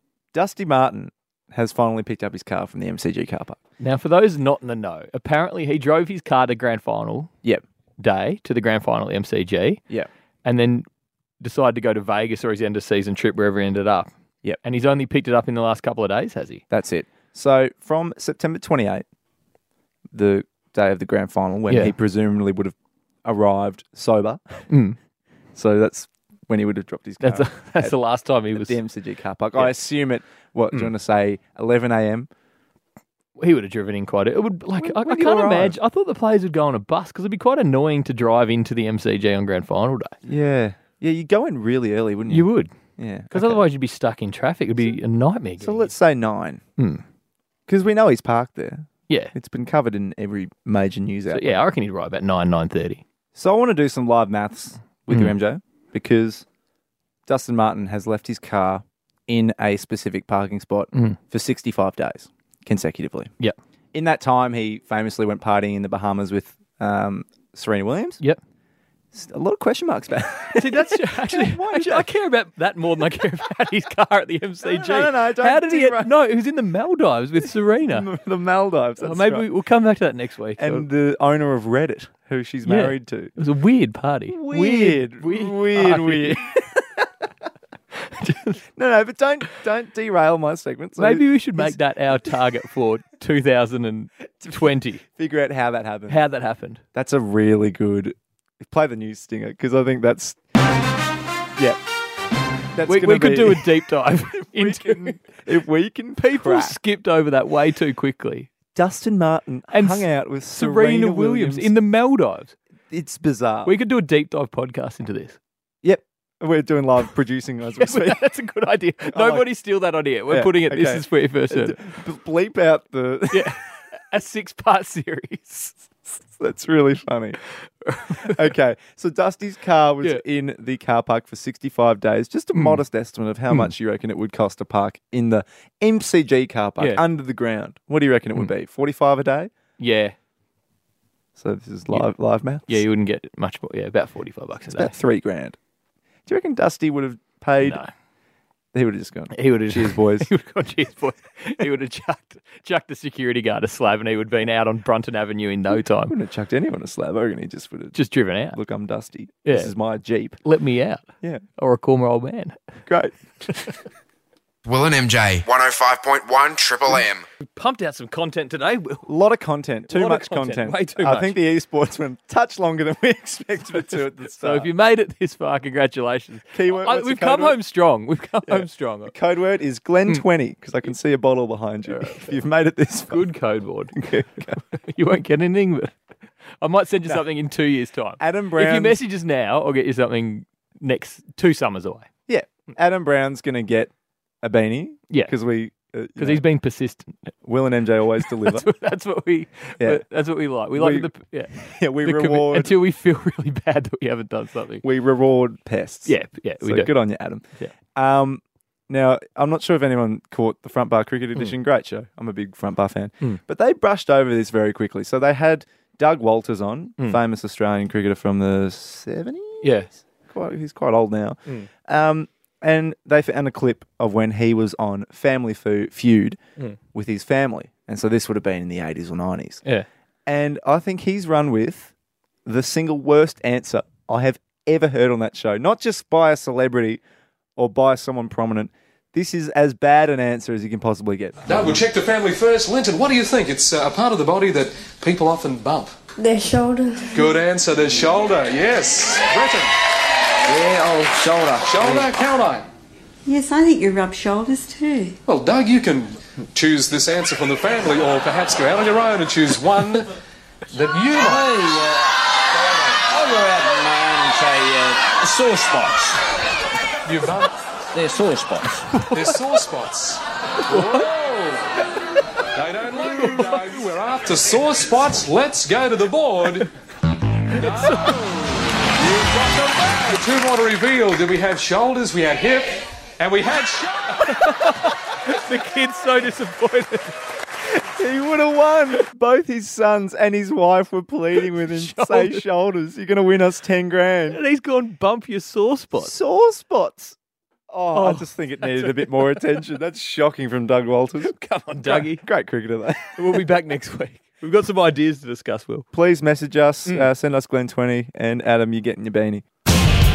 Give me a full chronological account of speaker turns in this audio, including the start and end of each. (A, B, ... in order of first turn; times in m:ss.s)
0:00.3-0:03.6 A
0:03.8-0:07.3 B
0:08.0-0:09.8 B
0:10.4-0:10.9 B
0:11.4-0:14.1 B
0:14.6-0:16.6 B
0:16.7-0:19.0 A
0:20.1-0:24.4 A
0:21.7-0:22.0 B
0:24.7-0:25.0 B
0:25.6-0:27.9 A
0:27.2-0:28.8 B
0:28.5-0:32.3 A
0:33.4-0:40.2 B
0:34.8-0:35.8 A
0:40.2-0:43.6 A
0:42.3-0:42.7 B
0:43.3-0:45.9 B
0:45.6-0:46.6 A
0:47.7-0:51.6 A
0:49.1-0:49.3 B
0:51.3-0:53.0 B
0:53.4-0:56.5 A
0:57.3-1:03.3 A
1:03.9-1:08.2 A
1:09.1-1:12.1 A
1:10.6-1:18.1 B
1:14.6-1:16.1 A
1:17.9-1:19.5 A
1:19.0-1:20.9 B
1:20.6-1:23.3 A
1:22.6-1:26.8 B
1:24.3-1:26.7 A
1:28.0-1:28.6 B
1:28.8-1:31.8 A
1:31.0-1:35.0 B
1:34.4-1:36.2 A
1:36.1-1:36.8 B
1:37.0-1:40.4 A
1:42.8-1:46.8 A
1:42.8-1:45.3 B
1:46.2-1:48.5 B
1:48.7-1:51.7 A
1:49.7-1:52.5 B
1:52.9-1:53.7 A
1:53.6-1:55.4 B
1:55.8-1:58.2 A
1:57.7-2:01.8 B
1:59.1-1:59.5 A
2:00.3-2:03.6 A
2:03.3-2:05.9 B
2:06.3-2:07.4 A
2:07.8-2:08.5 B
2:08.2-2:19.5 A
2:12.6-2:12.8 B
2:19.8-2:20.2 B
2:21.4-2:22.8 A
2:22.7-2:25.0 B
2:24.7-2:25.6 A
2:26.3-2:27.8 A
2:27.6-2:27.9 B
2:28.7-2:30.3 A
2:29.3-2:36.2 B
2:35.7-2:38.0 A
2:37.9-2:38.6 B
2:38.5-2:40.4 A
2:39.4-2:39.7 B
2:40.4-2:41.0 B
2:41.6-2:42.6 B
2:42.9-2:43.6 A
2:44.6-2:47.2 C
2:47.4-2:49.1 B
2:49.1-2:54.7 A
2:49.9-2:51.4 B
2:54.4-2:59.1 B
2:56.5-2:57.6 A
2:58.4-3:03.3 A
3:01.9-3:02.4 B
3:03.1-3:04.0 B
3:03.9-3:04.6 A
3:04.6-3:06.0 B
3:06.6-3:12.1 B
3:08.2-3:09.0 A
3:12.3-3:16.4 A
3:16.2-3:17.3 B
3:17.4-3:18.7 A
3:18.2-3:24.8 B
3:20.7-3:22.8 A
3:24.8-3:46.4 A
3:26.1-3:26.9 B
3:39.6-3:39.9 B
3:46.9-3:49.6 A
3:50.3-3:51.9 A
3:52.4-3:57.0 A
3:57.6-4:01.6 A
4:01.4-4:06.0 D
4:06.2-4:07.3 E
4:07.1-4:09.8 D
4:10.4-4:12.1 F
4:11.6-4:12.7 D
4:13.2-4:15.2 E
4:15.3-4:20.2 D
4:20.7-4:21.7 D
4:21.1-4:26.2 F
4:27.0-4:27.6 D
4:27.9-4:28.8 F
4:28.9-4:29.4 B
4:29.1-4:31.9 D
4:30.7-4:31.0 B
4:32.5-4:36.7 D
4:33.1-4:33.7 B
4:37.5-4:38.4 B
4:37.5-4:44.5 D
4:44.2-4:47.2 B
4:47.7-4:54.4 A
4:51.4-4:52.4 B
4:54.3-4:56.1 B
4:56.0-4:57.2 A
4:57.7-5:03.4 A
4:57.9-4:59.5 B
5:01.2-5:02.2 B
5:03.2-5:05.9 B
5:05.9-5:09.4 A